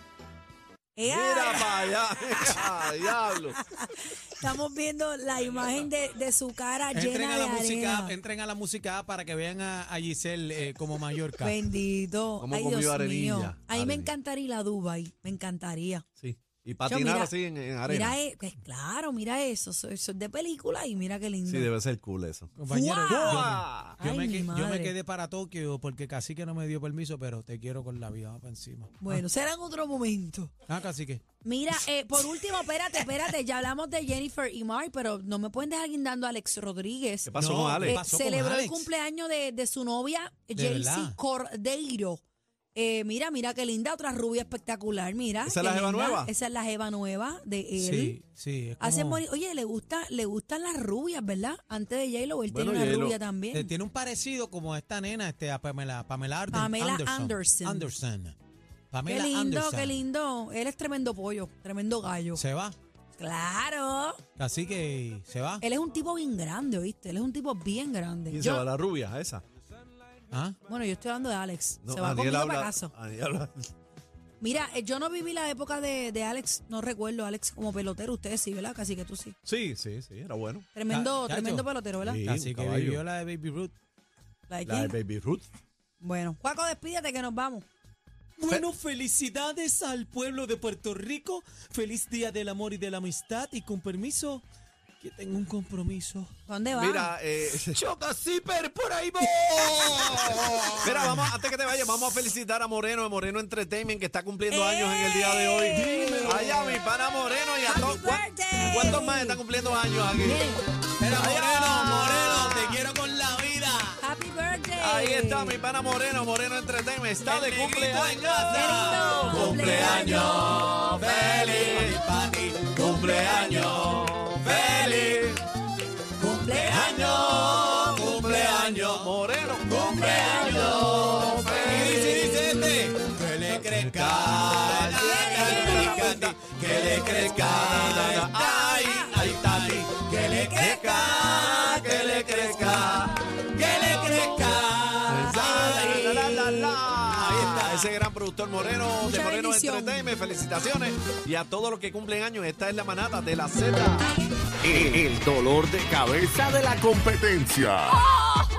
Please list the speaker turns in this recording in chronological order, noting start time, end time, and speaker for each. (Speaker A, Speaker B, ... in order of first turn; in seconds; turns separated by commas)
Speaker A: 0.9-8.1, Speaker B: 1.0-3.6, Speaker C: 6.9-11.6, Speaker A: 11.4-16.0, Speaker B: 12.4-14.1, Speaker B: 16.2-18.2, Speaker A: 16.9-17.3, Speaker A: 17.8-21.7, Speaker B: 21.4-24.0, Speaker C: 22.6-29.2, Speaker A: 22.7-24.9, Speaker A: 29.0-30.5, Speaker C: 30.7-31.2, Speaker A: 31.4-42.2, Speaker B: 37.2-38.0, Speaker C: 37.3-38.9, Speaker C: 40.5-41.2, Speaker A: 42.7-48.2, Speaker B: 45.4-46.3, Speaker C: 47.8-49.2, Speaker A: 48.8-53.7, Speaker B: 52.5-53.2, Speaker C: 53.5-58.4, Speaker A: 56.5-57.9, Speaker C: 58.9-60.0, Speaker A: 59.1-62.4, Speaker C: 62.3-62.8, Speaker A: 63.1-64.2, Speaker C: 64.4-65.6, Speaker A: 65.6-68.7, Speaker B: 68.3-69.4, Speaker C: 70.3-70.6, Speaker A: 70.7-72.9, Speaker B: 71.8-73.6, Speaker A: 74.4-79.3, Speaker B: 79.4-80.7, Speaker A: 80.7-82.2, Speaker C: 80.9-83.7, Speaker B: 82.0-83.0, Speaker A: 84.5-85.0, Speaker B: 84.6-85.5, Speaker A: 86.0-87.7, Speaker C: 88.4-94.4, Speaker C: 95.0-96.3, Speaker A: 96.5-97.2, Speaker B: 96.7-97.8, Speaker C: 97.5-101.3, Speaker B: 100.8-110.5, Speaker A: 104.5-106.8, Speaker C: 105.7-106.8, Speaker A: 107.6-109.4, Speaker A: 110.2-110.6, Speaker C: 111.0-114.0, Speaker B: 111.0-112.8, Speaker A: 114.0-115.6, Speaker B: 114.8-122.0, Speaker C: 117.2-125.2, Speaker A: 118.5-120.8, Speaker B: 122.7-125.4, Speaker A: 122.8-124.0, Speaker A: 126.2-127.1, Speaker C: 126.2-129.1, Speaker B: 126.6-132.6, Speaker C: 129.6-148.0, Speaker A: 129.9-132.6, Speaker B: 133.5-143.1, Speaker A: 134.9-136.2, Speaker A: 138.1-139.3, Speaker A: 140.2-141.8, Speaker B: 145.1-154.1, Speaker A: 145.3-146.8, Speaker A: 149.0-150.1, Speaker D: 154.6-158.0